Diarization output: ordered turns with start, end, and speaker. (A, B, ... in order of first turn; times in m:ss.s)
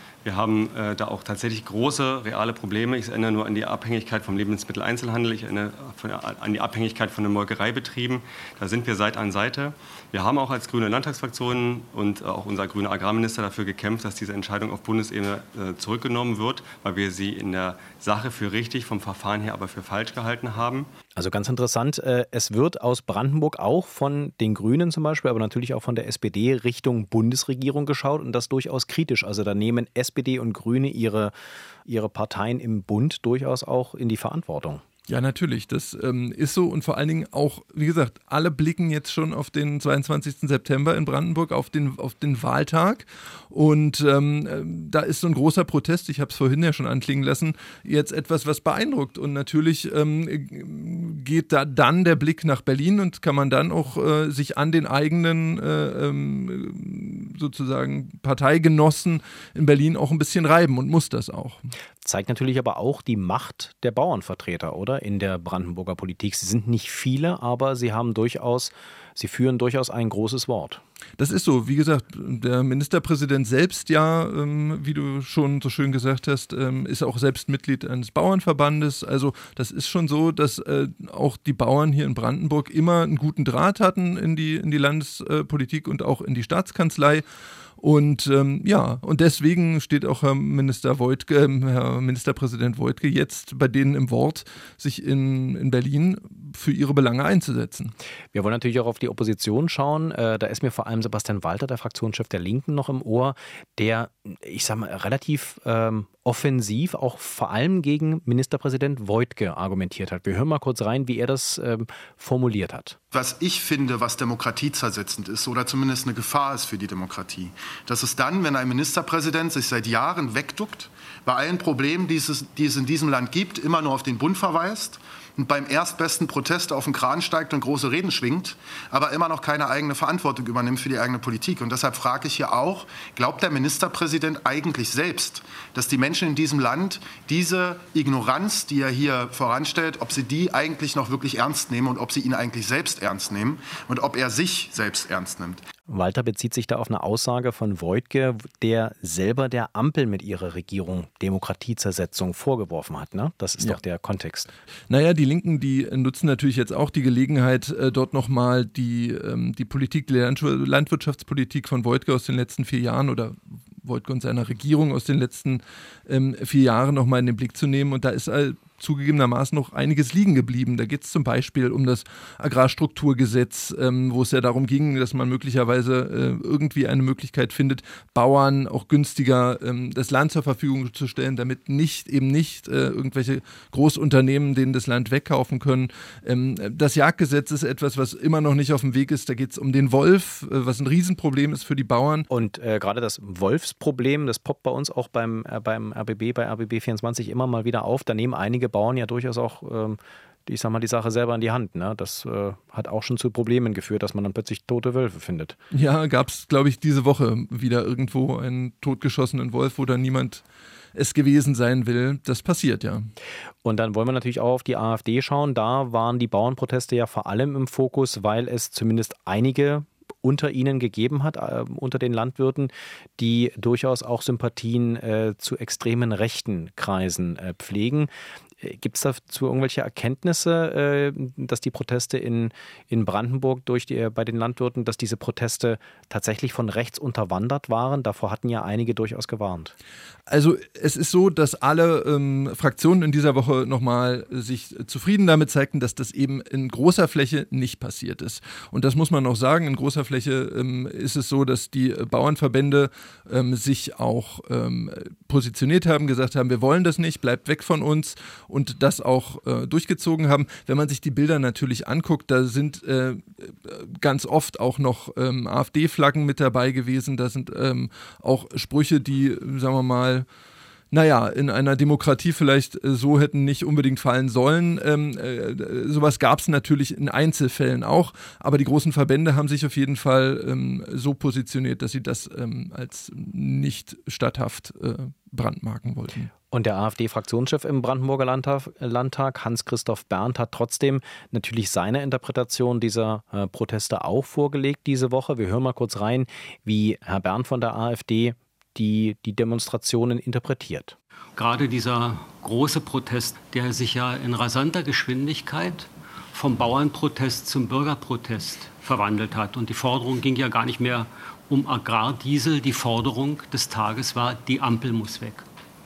0:00.2-0:20.9 A
0:21.2-0:31.3 B
0:31.8-0:34.8 B
0:35.1-1:01.7 C
1:02.0-1:10.8 B
1:11.2-1:27.2 C
1:27.8-1:37.9 C
1:38.3-1:53.0 B
1:53.1-2:25.6 D
2:25.9-2:34.5 B
2:34.9-3:12.3 C
3:12.3-3:25.6 B
3:25.7-3:33.1 C
3:33.6-3:59.7 B
4:00.3-4:30.2 C
4:30.9-4:46.3 C
4:46.5-5:01.0 B
5:01.4-5:15.4 E